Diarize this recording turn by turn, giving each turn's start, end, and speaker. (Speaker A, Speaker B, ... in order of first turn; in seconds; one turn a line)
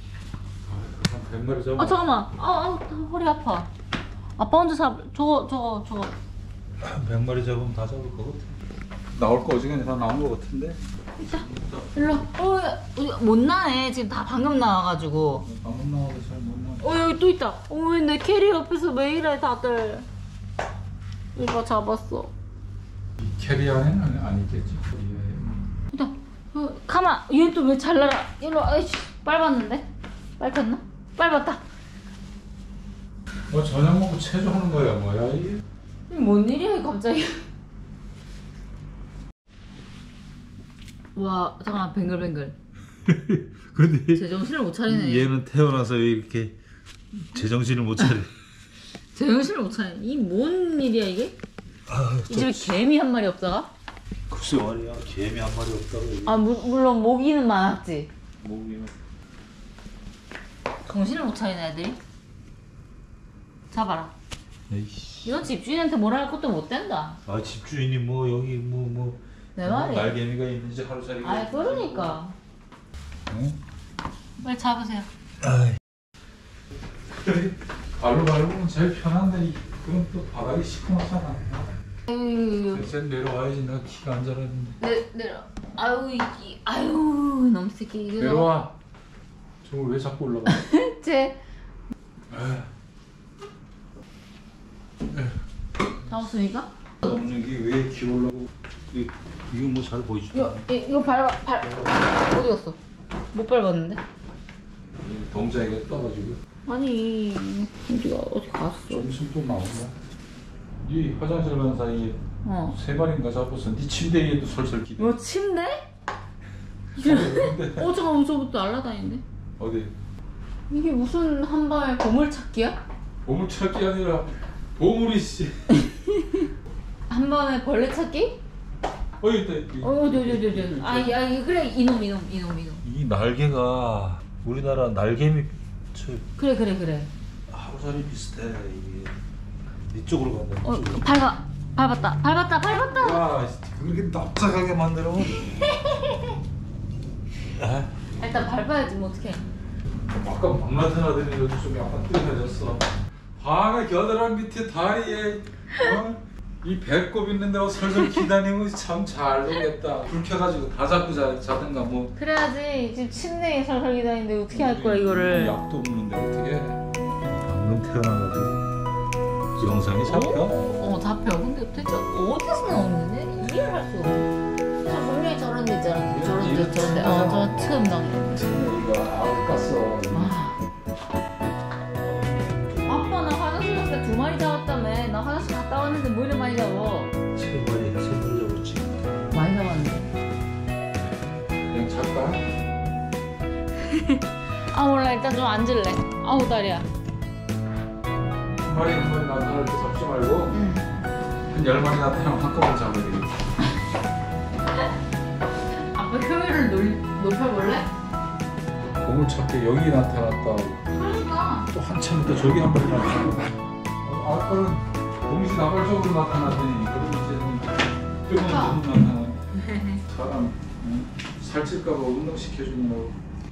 Speaker A: 0.7-2.0
Speaker B: 1.8-3.7
Speaker B: 4.4-6.1
Speaker C: 6.8-8.5
Speaker A: 9.1-10.8
Speaker B: 11.2-15.4
Speaker A: 15.4-16.8
Speaker B: 16.8-20.1
Speaker B: 21.3-22.3
Speaker A: 23.2-25.7
Speaker B: 25.9-29.9
Speaker B: 30.4-31.6
Speaker A: 33.5-35.6
Speaker B: 36.1-37.4
Speaker B: 41.1-42.5
Speaker C: 43.0-44.2
Speaker B: 44.1-45.3
Speaker C: 44.9-46.5
Speaker C: 47.3-48.3
Speaker B: 49.1-51.4
Speaker C: 51.9-52.8
Speaker B: 52.3-53.7
Speaker C: 54.3-56.4
Speaker B: 56.2-58.1
Speaker C: 58.4-58.9
Speaker B: 60.9-62.0
Speaker B: 63.7-64.1
Speaker C: 64.7-65.1
Speaker B: 65.2-67.2
Speaker C: 67.2-71.0
Speaker B: 69.5-70.1
Speaker A: 71.0-72.2
Speaker B: 71.2-72.3
Speaker A: 73.3-73.5
Speaker B: 74.4-75.1
Speaker C: 75.4-75.8
Speaker A: 78.0-81.7
Speaker B: 82.1-82.8
Speaker A: 82.7-84.8
Speaker B: 84.8-88.5
Speaker A: 88.2-88.7
Speaker A: 89.6-90.6
Speaker B: 90.5-91.4
Speaker A: 92.3-92.7
Speaker B: 96.1-96.7
Speaker A: 97.0-98.5
Speaker C: 98.9-100.7
Speaker B: 100.3-102.8
Speaker B: 103.3-104.0
Speaker A: 105.0-106.4
Speaker B: 106.7-109.1
Speaker A: 108.9-109.9
Speaker A: 110.8-112.2
Speaker B: 112.4-112.8
Speaker A: 112.7-115.2
Speaker B: 115.0-115.8
Speaker A: 116.9-117.9
Speaker B: 117.0-119.2
Speaker A: 119.6-119.9
Speaker B: 120.7-122.8
Speaker A: 123.2-125.7
Speaker B: 125.9-126.4
Speaker B: 127.1-128.4
Speaker A: 129.2-131.2
Speaker B: 129.8-132.8
Speaker C: 132.8-136.2
Speaker B: 136.4-137.1
Speaker C: 137.5-139.1
Speaker C: 139.9-141.1
Speaker B: 140.6-143.2
Speaker A: 142.9-145.1
Speaker C: 143.8-145.3
Speaker B: 145.5-146.3
Speaker C: 147.6-147.9
Speaker B: 148.2-149.4
Speaker A: 150.1-152.8
Speaker A: 153.4-162.1
Speaker B: 162.2-165.6
Speaker A: 164.5-166.8
Speaker C: 167.5-168.6
Speaker C: 169.6-170.5
Speaker B: 170.0-174.3
Speaker B: 174.8-178.4
Speaker A: 176.1-177.8
Speaker A: 178.3-180.4
Speaker B: 180.1-180.5
Speaker C: 182.3-183.2
Speaker B: 182.8-187.1
Speaker C: 187.3-189.1
Speaker B: 189.3-190.1
Speaker A: 191.7-192.4
Speaker B: 193.9-194.2
Speaker B: 194.7-196.8
Speaker A: 198.6-200.6
Speaker B: 200.5-200.8
Speaker A: 201.5-203.3
Speaker B: 205.9-207.9
Speaker A: 208.9-210.8
Speaker B: 210.9-211.7
Speaker A: 211.7-213.5
Speaker A: 214.0-217.7
Speaker A: 218.3-219.4
Speaker B: 218.4-218.8
Speaker B: 219.5-220.0
Speaker A: 220.1-223.1